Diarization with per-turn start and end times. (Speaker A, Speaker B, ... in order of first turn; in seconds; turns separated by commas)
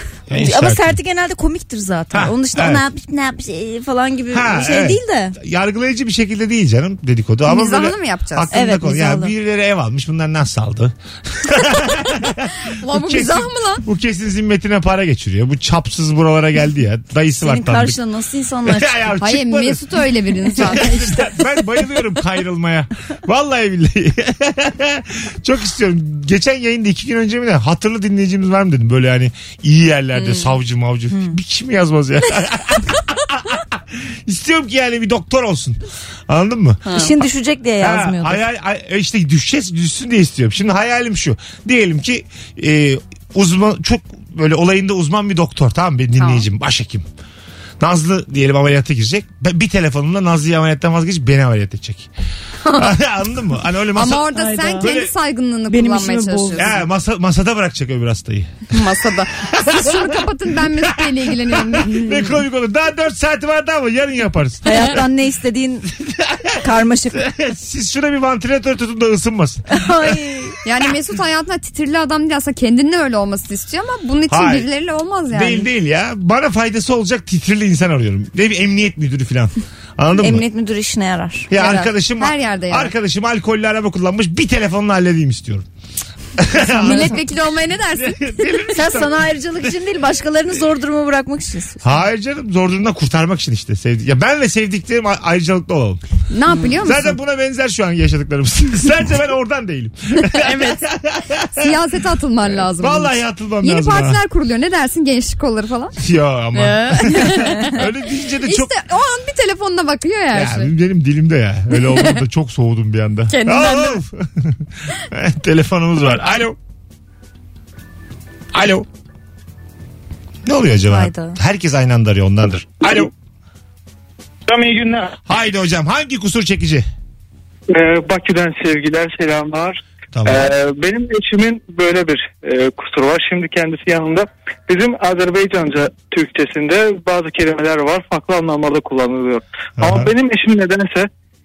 Speaker A: 0.3-1.0, Speaker B: 0.3-5.4, Speaker A: 2.1-2.8, Speaker A: 4.3-18.0, Speaker C: 7.5-8.5, Speaker B: 8.5-9.3, Speaker C: 12.7-13.8, Speaker B: 17.4-19.1, Speaker A: 18.6-19.9, Speaker C: 19.2-21.2, Speaker A: 20.5-37.0, Speaker C: 36.9-37.1, Speaker B: 36.9-38.4, Speaker A: 37.8-47.1, Speaker C: 46.2-46.5, Speaker A: 47.8-52.1, Speaker C: 52.6-52.9, Speaker A: 52.8-55.1, Speaker C: 54.0-56.7, Speaker B: 54.3-55.0, Speaker B: 55.7-56.7, Speaker A: 56.6-58.7, Speaker C: 58.7-62.2, Speaker A: 59.4-60.1, Speaker A: 60.9-65.0, Speaker B: 64.6-65.9, Speaker A: 66.0-66.6, Speaker B: 66.6-67.2, Speaker A: 67.1-70.1, Speaker B: 69.7-70.6, Speaker C: 70.6-75.7, Speaker A: 74.3-74.7, Speaker A: 75.3-80.4, Speaker B: 80.2-81.5, Speaker A: 81.5-85.7, Speaker C: 81.5-82.9, Speaker A: 86.4-87.3, Speaker C: 86.5-88.3, Speaker B: 86.9-87.1, Speaker A: 87.9-89.3, Speaker B: 88.7-91.9, Speaker A: 91.8-96.0, Speaker C: 96.3-97.2, Speaker A: 96.8-101.7, Speaker C: 100.3-100.9, Speaker C: 101.6-103.1, Speaker A: 102.5-104.2, Speaker C: 103.6-106.0, Speaker A: 106.0-108.7, Speaker C: 106.6-107.8, Speaker C: 108.4-110.7, Speaker A: 110.3-116.6, Speaker C: 113.3-114.0, Speaker A: 118.5-118.9, Speaker A: 120.5-123.1, Speaker B: 120.9-121.4, Speaker D: 124.5-125.1, Speaker A: 125.2-126.9, Speaker D: 127.7-141.1, Speaker A: 130.1-130.5, Speaker A: 139.8-140.1